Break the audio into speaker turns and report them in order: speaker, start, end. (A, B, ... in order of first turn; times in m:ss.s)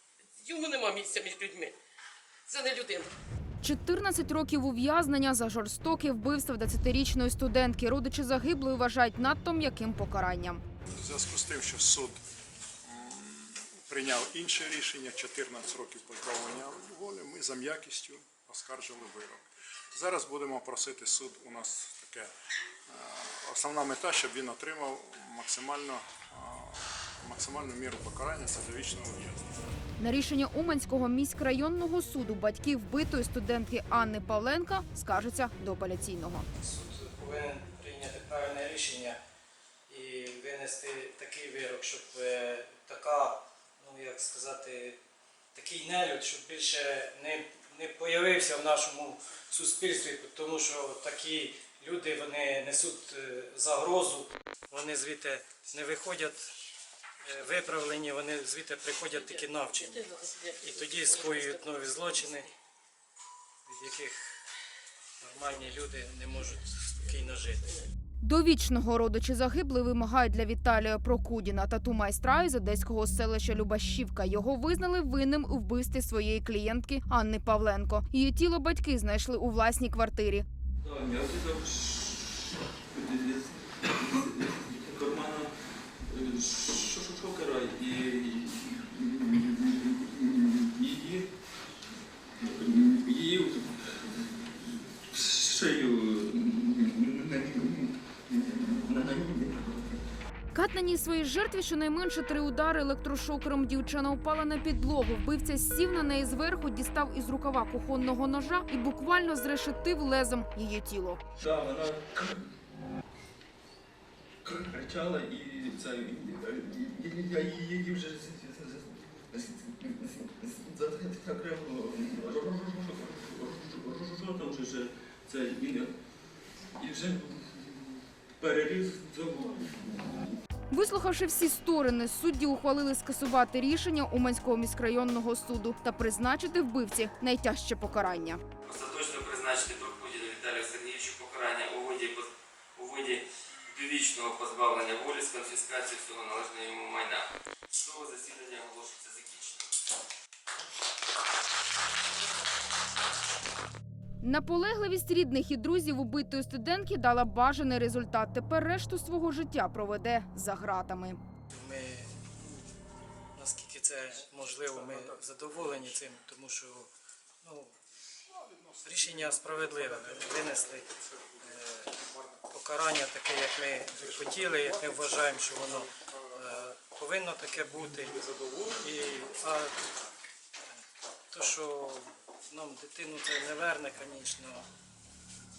0:00.3-0:01.8 A
0:02.5-0:03.1 A
0:03.6-0:10.6 B
0:11.0-0:12.2 C
0:12.8-0:22.3 C
0:22.9-0:29.5 C
0:30.0-0:36.4 B
0:36.6-0:39.2 D
0:39.9-0:45.0 D
0:45.5-0:56.5 D
0:57.2-1:02.5 D
0:59.2-1:02.5 A
1:03.6-1:04.4 D
1:05.2-1:07.8 D
1:08.2-1:20.4 B
1:20.8-1:25.5 E
1:26.0-1:31.3 E
1:32.4-1:34.5 E
1:35.0-1:40.0 E
1:40.5-1:51.2 B
1:51.4-1:52.4 E
1:54.4-2:06.0 E
2:06.8-2:10.3 E
2:10.7-2:18.4 B
2:18.6-2:29.7 F
2:34.2-2:41.2 B
2:41.5-2:42.2 D
2:43.3-2:46.9 D
2:44.7-2:45.9 C
2:47.4-2:47.7 D
2:48.3-2:52.5 C
2:48.8-2:50.9 D
2:51.4-2:51.9 D
2:52.5-2:58.2 D
2:54.0-2:56.4 C
2:58.0-2:58.8 C
2:58.8-2:59.7 D
3:01.3-3:04.7 D